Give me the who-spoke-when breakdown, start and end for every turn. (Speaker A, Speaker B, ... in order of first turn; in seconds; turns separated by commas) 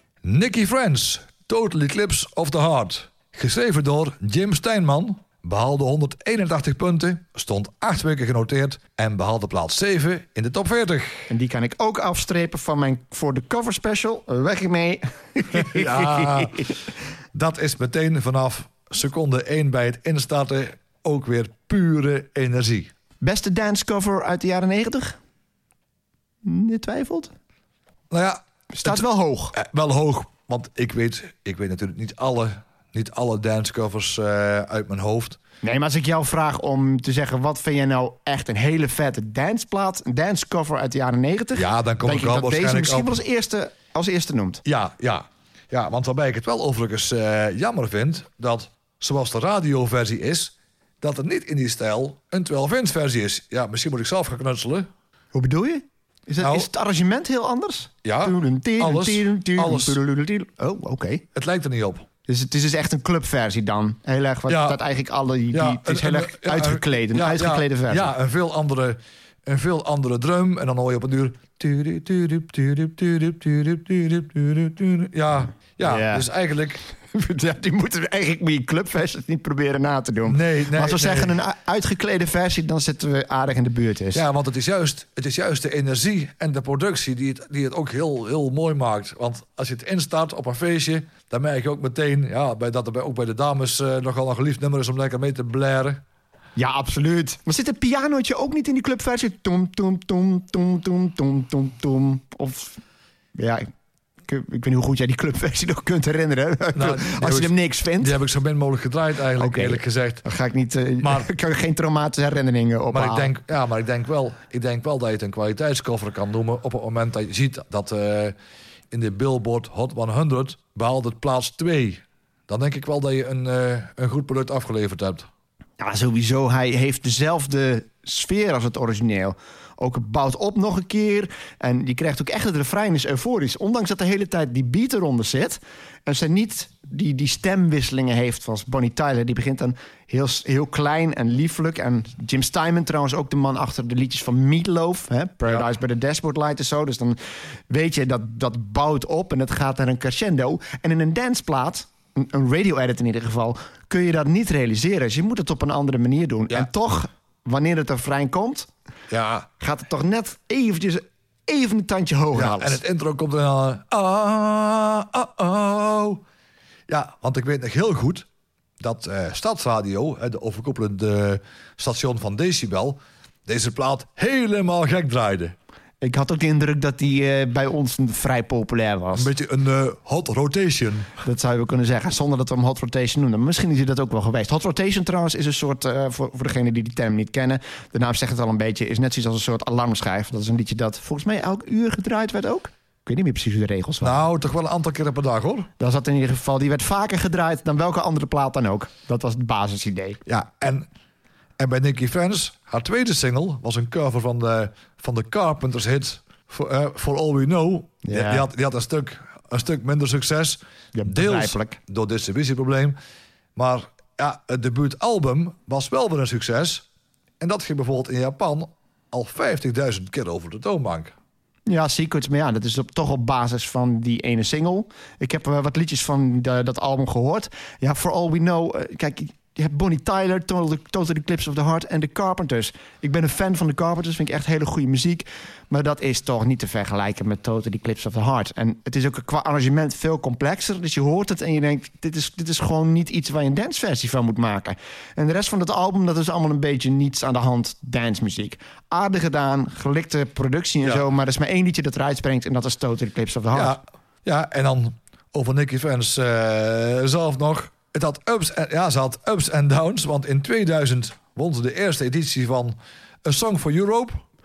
Speaker A: 0.2-11.3, Speaker B: 11.3-16.7, Speaker A: 15.5-16.7, Speaker A: 17.3-22.9, Speaker B: 23.2-25.2, Speaker B: 26.4-27.3, Speaker A: 28.1-35.4, Speaker B: 28.7-29.6, Speaker B: 35.6-44.6, Speaker A: 41.5-43.2, Speaker A: 44.6-54.9, Speaker B: 55.3-61.2, Speaker A: 56.4-56.7, Speaker A: 58.0-60.0, Speaker A: 61.4-62.1, Speaker B: 62.3-68.1, Speaker A: 64.5-64.8, Speaker A: 65.5-76.8, Speaker B: 75.8-76.3, Speaker B: 77.1-84.2, Speaker A: 80.3-81.4, Speaker A: 84.1-96.0, Speaker B: 96.6-102.8, Speaker B: 103.4-103.7, Speaker B: 104.2-108.2, Speaker A: 106.8-110.2, Speaker B: 109.4-113.3, Speaker A: 111.0-111.3, Speaker A: 112.9-118.3, Speaker A: 118.9-125.3, Speaker B: 125.8-147.2, Speaker B: 147.7-158.7, Speaker A: 159.1-159.5, Speaker B: 159.6-162.8, Speaker A: 162.3-166.2, Speaker A: 166.9-168.3, Speaker A: 168.8-175.6, Speaker B: 176.0-179.3, Speaker A: 179.2-181.1, Speaker B: 181.2-194.2, Speaker A: 194.0-195.7, Speaker B: 195.8-200.2, Speaker A: 200.3-200.9, Speaker A: 201.6-213.0, Speaker B: 208.0-208.5, Speaker B: 210.9-211.8, Speaker A: 213.6-216.8, Speaker A: 217.4-221.1, Speaker B: 221.7-253.8, Speaker A: 253.5-264.2